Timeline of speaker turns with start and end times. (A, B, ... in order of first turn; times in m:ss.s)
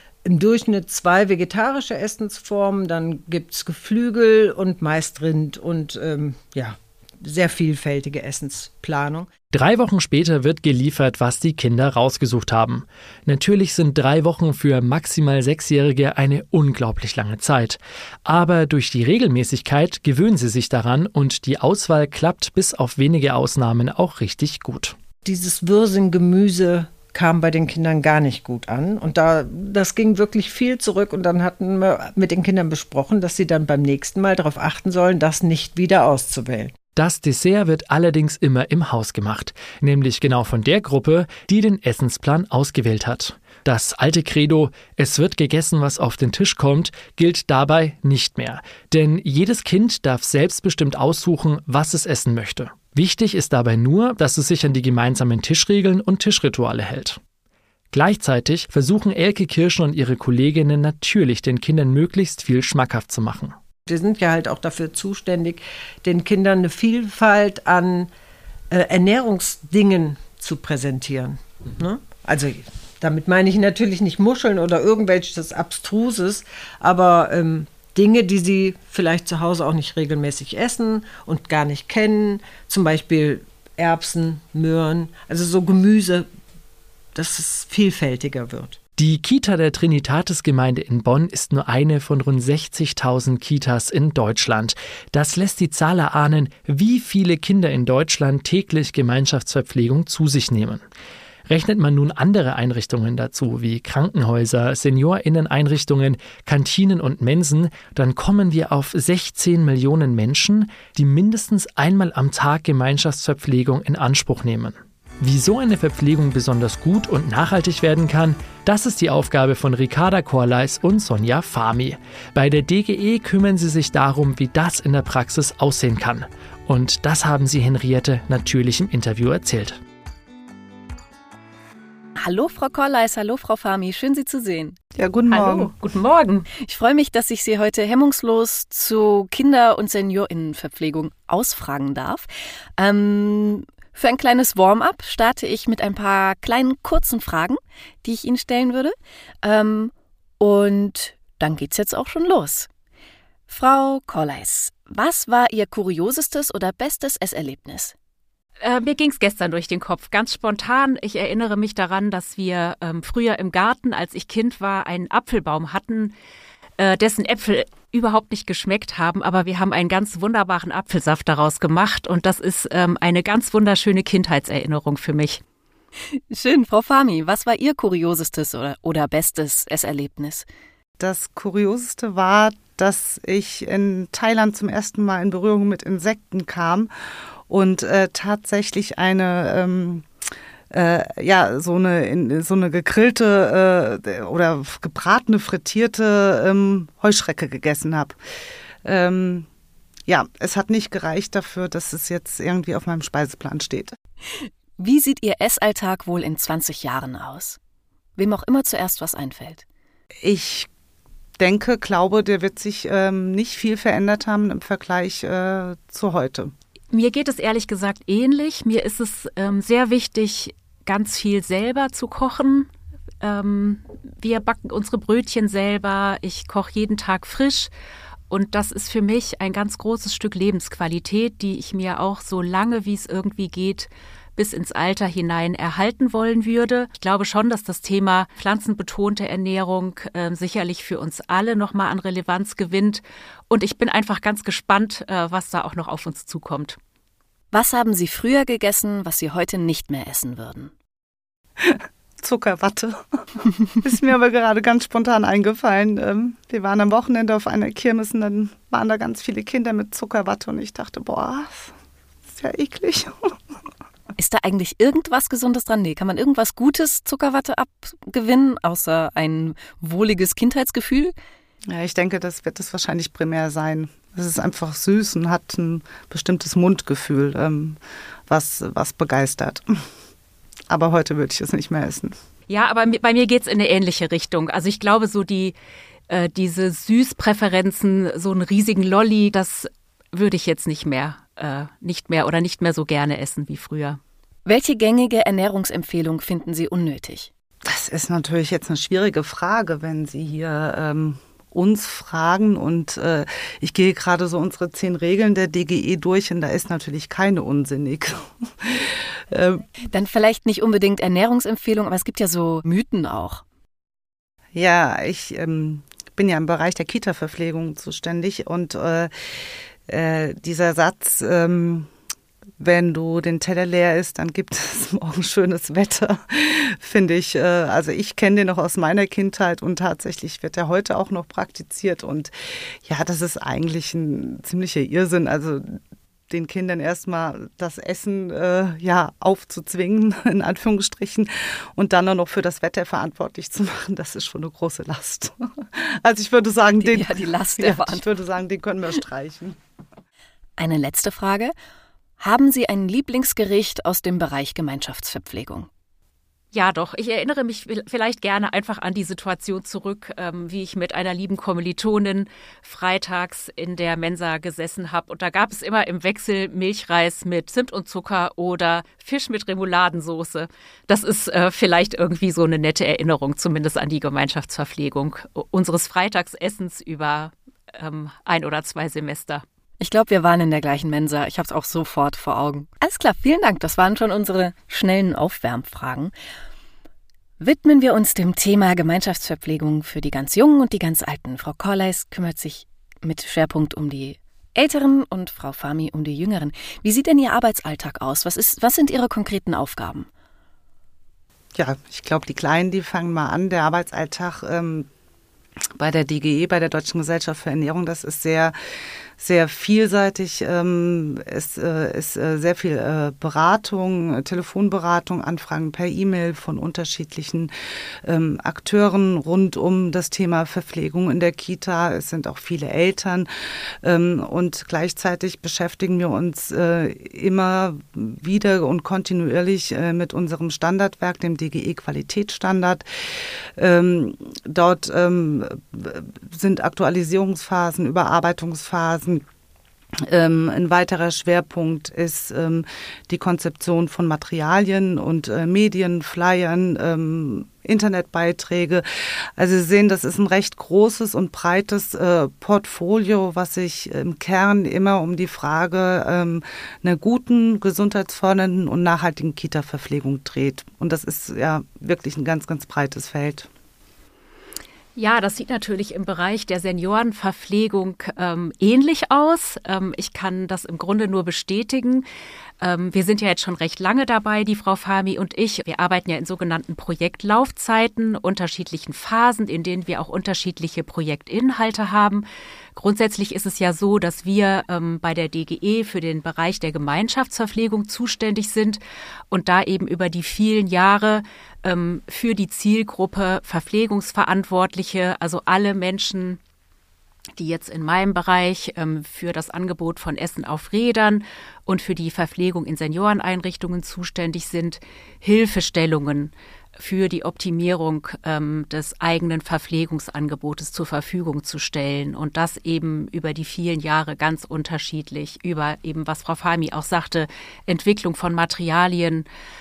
0:00.3-0:09.3 A
0:09.5-0:24.9 B
0:25.2-0:36.7 A
0:37.0-0:57.2 B
0:57.9-1:03.5 B
1:03.8-1:08.1 A
1:08.7-1:26.3 A
1:27.1-1:28.8 A
1:29.0-1:40.8 B
1:41.5-2:09.8 B
2:12.2-2:14.8 C
2:14.9-2:15.7 D
2:15.3-2:16.4 E
2:16.6-2:22.3 C
2:22.8-2:32.7 C
2:33.5-2:37.9 C
2:38.6-2:46.1 E
2:46.8-2:55.4 E
2:56.1-3:00.5 C
3:01.0-3:06.9 D
3:07.5-3:10.1 D
3:10.7-3:18.2 D
3:18.8-3:19.5 D
3:20.1-3:24.0 D
3:24.8-3:27.6 C
3:28.2-3:29.6 C
3:30.2-3:30.7 D
3:31.4-3:36.5 D
3:36.9-3:42.7 E
3:43.2-3:47.7 E
3:48.3-4:06.8 E
4:07.5-4:10.7 C
4:11.6-4:13.2 D
4:13.8-4:21.7 D
4:22.3-4:23.4 D
4:24.2-4:31.1 C
4:31.7-4:39.6 D
4:40.7-4:42.2 D
4:42.5-4:45.5 E
4:46.1-4:54.0 E
4:54.4-4:57.3 C
4:57.6-5:09.6 D
5:09.9-5:13.4 C
5:14.5-5:21.9 D
5:22.6-5:49.6 D
5:46.8-5:48.1 C
5:50.6-5:51.5 C
5:52.2-5:55.7 C
5:56.5-6:19.4 E
6:19.8-6:26.1 C
6:27.4-6:40.1 C
6:41.5-6:44.9 D
6:45.7-6:48.5 D
6:49.2-6:57.5 D
6:58.0-7:03.3 D
7:03.8-7:19.2 D
7:20.0-7:43.5 D
7:45.0-7:52.1 E
7:52.6-8:16.4 E
8:17.4-8:39.3 E